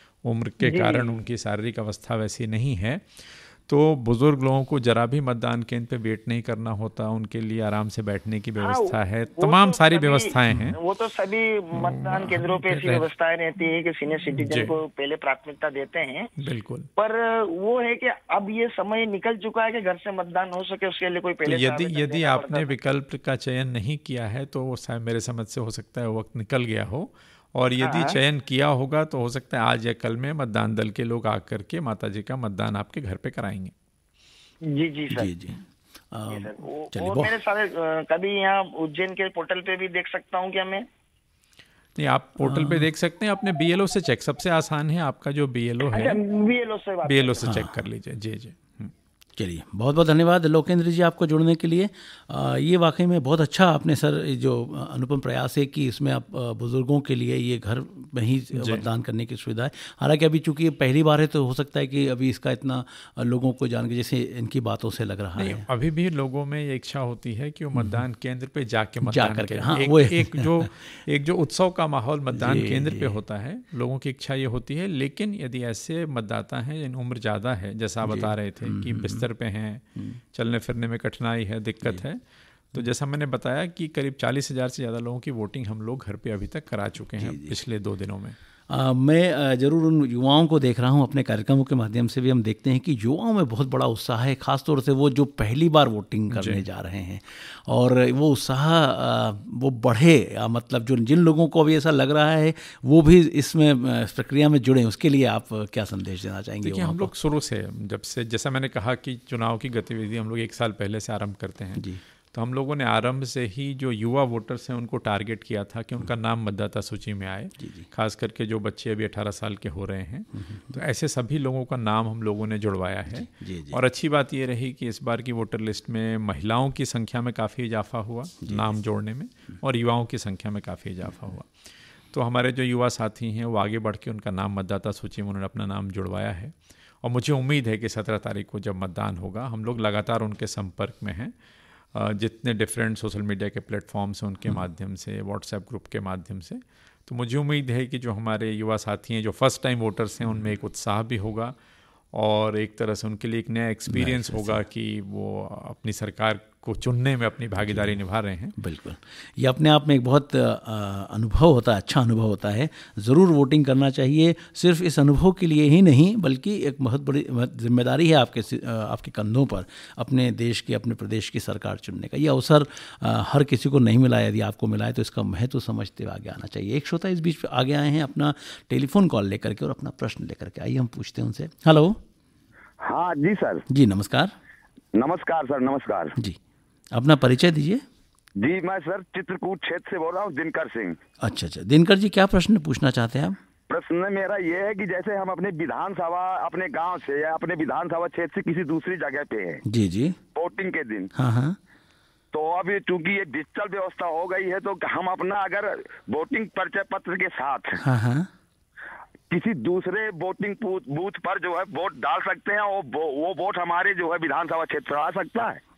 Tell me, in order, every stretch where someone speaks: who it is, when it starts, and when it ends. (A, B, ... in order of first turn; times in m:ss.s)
0:00.2-0:10.8 A
0:00.6-0:01.2 B
0:08.6-0:16.3 B
0:11.7-0:13.1 A
0:14.3-0:14.8 A
0:16.4-0:16.9 A
0:17.0-0:22.7 B
0:21.5-0:33.7 A
0:27.8-0:28.2 B
0:34.7-0:35.3 B
0:35.1-0:35.6 C
0:36.1-0:37.3 C
0:36.3-0:40.9 B
0:42.0-0:46.2 A
0:42.4-0:42.9 C
0:45.9-0:47.4 B
0:47.0-0:48.9 A
0:47.4-0:47.8 C
0:49.4-1:05.7 C
0:58.6-0:58.8 A
1:05.4-1:28.4 A
1:07.8-1:08.0 C
1:09.0-1:11.0 C
1:12.4-1:13.2 C
1:18.0-1:19.3 C
1:27.2-1:27.6 C
1:28.7-1:47.1 C
1:36.3-1:36.6 A
1:46.6-2:21.4 A
1:57.6-1:57.9 C
2:00.3-2:00.8 C
2:03.1-2:03.8 C
2:08.4-2:08.8 C
2:21.9-2:31.6 A
2:32.1-2:38.6 A
2:33.9-2:34.6 C
2:37.6-2:38.0 C
2:38.6-3:02.0 C
3:02.8-3:03.6 D
3:03.7-3:04.3 C
3:05.0-3:06.2 D
3:06.9-3:07.8 C
3:08.4-3:11.0 D
3:11.2-3:13.4 C
3:13.7-3:19.6 D
3:19.7-3:20.2 C
3:20.3-3:21.1 D
3:21.2-3:21.6 C
3:22.3-3:27.8 D
3:27.8-3:28.3 C
3:29.3-3:35.6 D